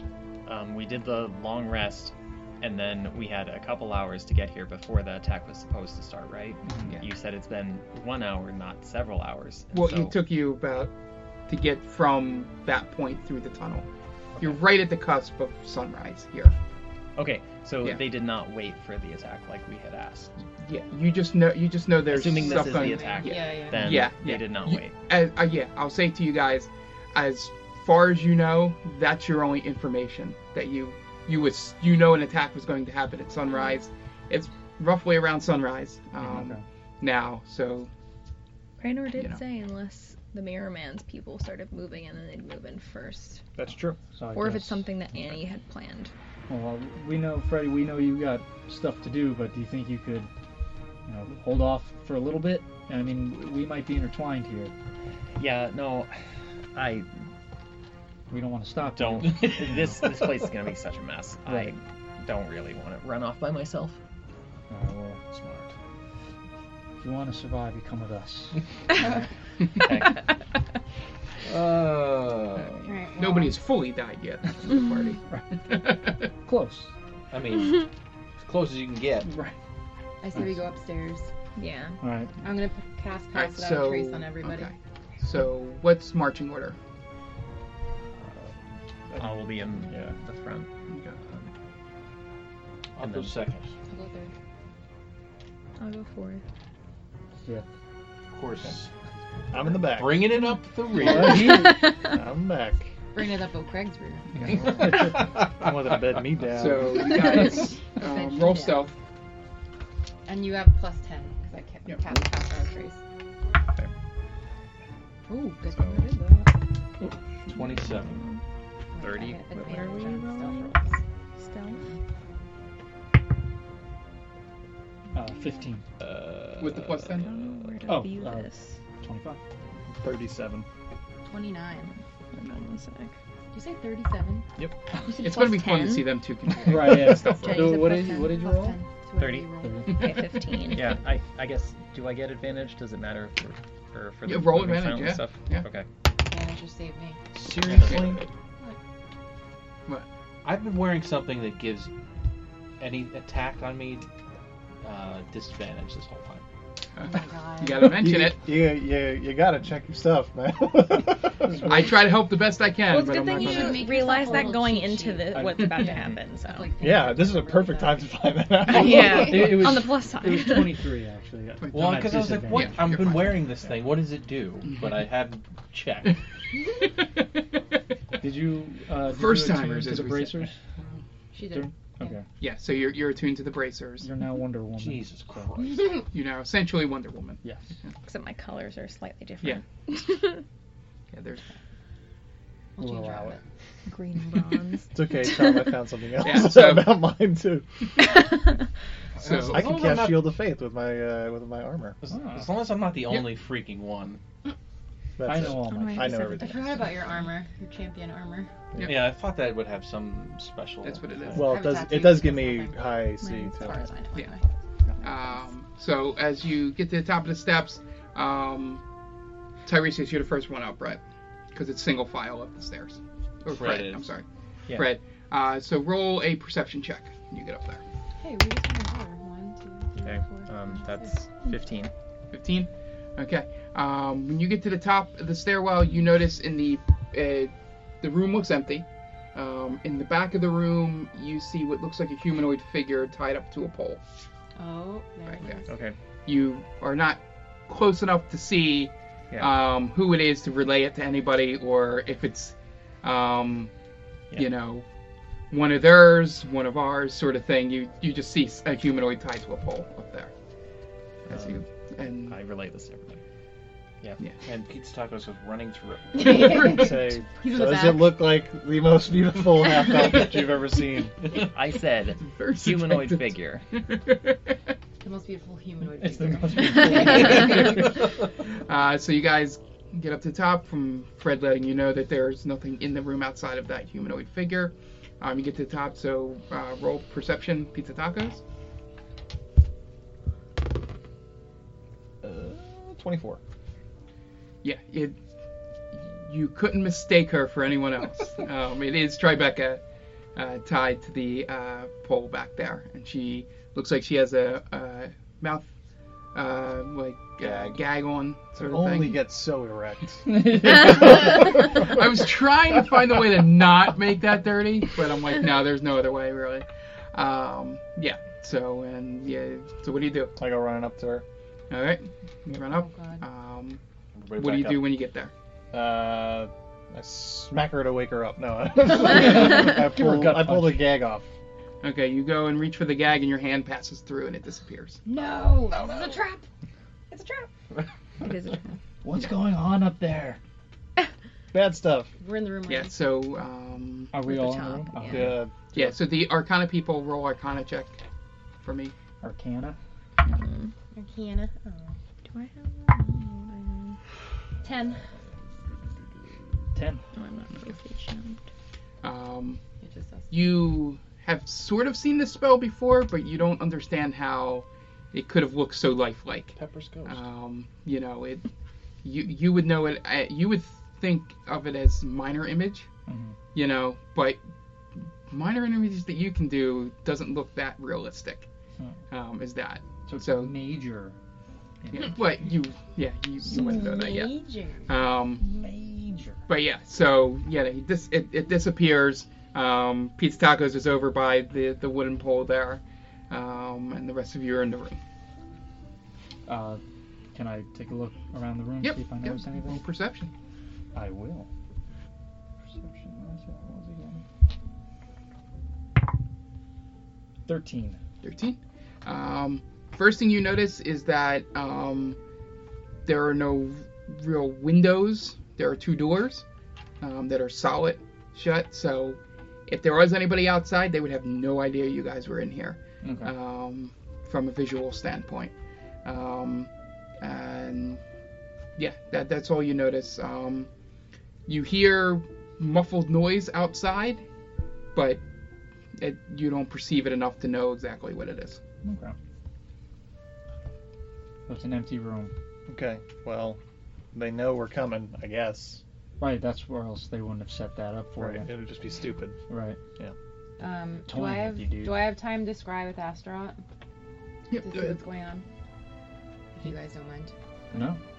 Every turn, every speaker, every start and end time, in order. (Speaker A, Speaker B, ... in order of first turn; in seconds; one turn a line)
Speaker A: 0.5-10.2
Speaker B: 6.6-7.0
Speaker C: 9.7-10.9
Speaker C: 11.5-13.8
Speaker C: 14.4-16.6
Speaker A: 17.1-20.3
Speaker C: 20.6-37.9
Speaker A: 22.1-24.9
Speaker D: 22.3-24.1
Speaker B: 36.2-36.6
Speaker E: 38.8-43.4
Speaker C: 39.1-39.4
Speaker F: 43.5-44.0
Speaker B: 44.1-44.8
Speaker E: 44.3-46.1
Speaker B: 46.5-50.3
Speaker B: 51.1-54.7
Speaker A: 55.4-56.1
Speaker A: 56.7-57.1
Speaker B: 58.3-60.0
Speaker A: 59.0-64.0
Speaker G: 59.0-59.9
Speaker B: 61.5-61.8
Speaker B: 64.7-65.2
Speaker G: 65.3-65.7
Speaker B: 67.0-69.3
Speaker D: 69.0-69.2
Speaker A: 69.8-70.2
Speaker G: 71.4-72.9
Speaker D: 72.8-73.6
Speaker C: 73.2-76.3
Speaker B: 76.4-76.9
Speaker G: 77.3-79.3
Speaker B: 79.2-79.5
Speaker D: 80.2-81.3
Speaker B: 80.3-80.6
Speaker E: 81.5-82.0
Speaker B: 82.0-82.3
Speaker D: 82.4-84.7
Speaker C: 83.3-86.8
Speaker B: 89.1-90.2
Speaker A: 89.1-90.7
Speaker C: 90.9-91.2
Speaker A: 91.2-91.5
Speaker G: 93.0-93.7
Speaker A: 93.0-93.3
Speaker D: 93.8-94.3
Speaker E: 95.8-96.4
Speaker G: 98.3-98.9
Speaker F: 99.5-100.3
Speaker G: 99.6-101.7
Speaker B: 101.0-101.8
Speaker E: 101.5-102.2
Speaker F: 102.0-102.9
Speaker D: 103.1-104.8
Speaker B: 104.3-105.2
Speaker G: 104.9-105.7
Speaker F: 105.5-107.0
Speaker C: 106.4-108.9
Speaker D: 107.0-108.9
Speaker D: 110.3-113.0
Speaker D: 115.3-116.5
Speaker E: 115.7-116.2
Speaker G: 117.5-118.2
Speaker E: 118.0-118.4
Speaker D: 118.9-121.0
Speaker A: 119.0-119.5
Speaker E: 119.5-120.8
Speaker E: 121.4-121.9
Speaker B: 125.1-125.8
Speaker G: 126.0-127.3
Speaker C: 126.6-127.4
Speaker E: 127.2-128.8
Speaker B: 127.9-128.5
Speaker B: 129.0-129.4
Speaker F: 130.0-130.7
Speaker D: 131.3-131.9
Speaker E: 132.3-133.1
Speaker D: 133.5-134.5
Speaker E: 135.0-136.2
Speaker C: 135.2-137.6
Speaker D: 136.6-140.1
Speaker B: 136.6-138.8
Speaker E: 137.3-137.8
Speaker A: 139.2-139.5
Speaker B: 139.6-140.0
Speaker E: 139.9-140.9
Speaker A: 140.7-145.9
Speaker C: 144.2-145.7
Speaker D: 146.3-147.3
Speaker G: 147.3-148.2
Speaker A: 147.8-148.1
Speaker G: 150.4-151.9
Speaker G: 152.8-154.1
Speaker G: 154.8-156.4
Speaker C: 157.0-158.4
Speaker D: 157.0-157.9
Speaker F: 157.8-161.7
Speaker B: 161.4-162.0
Speaker C: 161.6-163.9
Speaker E: 162.9-166.7
Speaker D: 163.4-168.1
Speaker B: 165.3-165.8
Speaker F: 166.8-169.6
Speaker E: 168.7-170.8
Speaker D: 168.7-169.3
Speaker B: 168.9-173.2
Speaker C: 171.6-173.5
Speaker G: 171.7-176.2
Speaker C: 174.7-175.1
Speaker B: 178.2-180.6
Speaker C: 179.1-181.0
Speaker D: 181.3-182.2
Speaker B: 181.5-182.2
Speaker C: 182.4-184.1
Speaker B: 184.0-185.5
Speaker G: 184.8-186.1
Speaker C: 186.1-187.9
Speaker B: 187.4-187.7
Speaker E: 188.1-190.4
Speaker C: 191.1-191.4
Speaker D: 192.8-193.4
Speaker B: 192.8-193.4
Speaker E: 193.9-195.8
Speaker F: 194.9-197.7
Speaker C: 196.2-197.0
Speaker C: 199.2-199.8
Speaker G: 199.2-200.3
Speaker F: 199.5-202.0
Speaker G: 202.0-204.2
Speaker B: 202.1-202.5
Speaker F: 205.2-206.7
Speaker B: 205.2-206.3
Speaker E: 205.5-206.9
Speaker D: 206.3-208.7
Speaker G: 208.8-211.5
Speaker C: 210.8-211.5
Speaker F: 211.3-213.8
Speaker D: 211.4-214.4
Speaker E: 213.4-213.8
Speaker C: 215.0-218.8
Speaker C: 219.6-221.0
Speaker C: 221.5-227.8
Speaker G: 223.5-224.0
Speaker D: 228.2-231.2
Speaker A: 230.0-231.9
Speaker C: 232.3-244.0
Speaker D: 244.6-245.7
Speaker C: 245.3-245.6
Speaker A: 245.7-245.9
Speaker C: 246.2-253.7
Speaker C: 254.3-254.8
Speaker C: 255.5-260.3
Speaker C: 261.2-262.4
Speaker A: 261.3-261.6
Speaker A: 262.2-263.2
Speaker G: 264.4-266.5
Speaker D: 266.1-268.3
Speaker F: 266.4-271.2
Speaker A: 271.3-273.6
Speaker C: 272.2-274.5
Speaker D: 275.0-277.8
Speaker B: 275.9-277.9
Speaker C: 277.3-277.8
Speaker C: 278.7-288.4
Speaker F: 292.2-293.4
Speaker C: 294.6-295.2
Speaker C: 295.9-299.8
Speaker C: 300.4-305.7
Speaker C: 306.3-309.2
Speaker G: 307.4-307.8
Speaker F: 308.6-311.3
Speaker B: 310.3-311.0
Speaker C: 310.6-320.3
Speaker F: 320.4-321.2
Speaker C: 321.7-323.8
Speaker D: 322.7-323.2
Speaker G: 324.1-324.9
Speaker C: 324.4-325.3
Speaker F: 325.7-331.3
Speaker B: 329.0-330.9
Speaker C: 331.8-335.0
Speaker D: 335.1-336.5
Speaker D: 337.1-337.5
Speaker E: 338.2-338.6
Speaker B: 339.0-340.4
Speaker F: 341.5-342.1
Speaker D: 342.2-342.9
Speaker C: 342.7-344.1
Speaker B: 344.1-345.4
Speaker E: 344.3-345.3
Speaker F: 345.1-345.9
Speaker C: 345.7-348.0
Speaker C: 348.6-348.9
Speaker B: 349.2-349.8
Speaker E: 350.2-350.7
Speaker D: 350.9-352.0
Speaker E: 352.2-354.0
Speaker D: 354.6-355.1
Speaker B: 356.7-357.0
Speaker E: 357.1-358.4
Speaker C: 359.0-359.6
Speaker D: 359.8-360.3
Speaker C: 360.3-368.4
Speaker G: 366.6-367.2
Speaker C: 369.0-372.9
Speaker B: 373.1-373.4
Speaker C: 373.5-374.4
Speaker C: 375.3-378.5
Speaker C: 379.1-380.5
Speaker B: 380.1-381.1
Speaker B: 381.8-382.2
Speaker C: 381.9-384.4
Speaker B: 383.4-384.0
Speaker D: 383.5-384.9
Speaker C: 384.9-385.4
Speaker B: 385.4-386.4
Speaker C: 386.5-395.0
Speaker B: 396.5-396.8
Speaker B: 397.3-399.8
Speaker C: 398.8-400.3
Speaker B: 400.9-401.5
Speaker B: 402.6-404.2
Speaker B: 407.5-408.0
Speaker C: 408.2-412.2
Speaker C: 413.1-416.4
Speaker C: 417.0-425.5
Speaker B: 423.0-423.3
Speaker C: 426.0-428.0
Speaker C: 428.8-430.7
Speaker C: 431.5-434.2
Speaker C: 434.9-435.2
Speaker C: 436.0-438.6
Speaker B: 438.8-439.1
Speaker B: 441.5-442.3
Speaker F: 442.7-443.6
Speaker F: 444.1-445.8
Speaker B: 446.2-448.5
Speaker F: 448.2-449.4
Speaker B: 449.5-449.8
Speaker D: 450.6-453.6
Speaker B: 451.1-452.1
Speaker C: 454.5-454.9
Speaker D: 454.6-455.4
Speaker D: 456.5-457.3
Speaker B: 457.7-458.0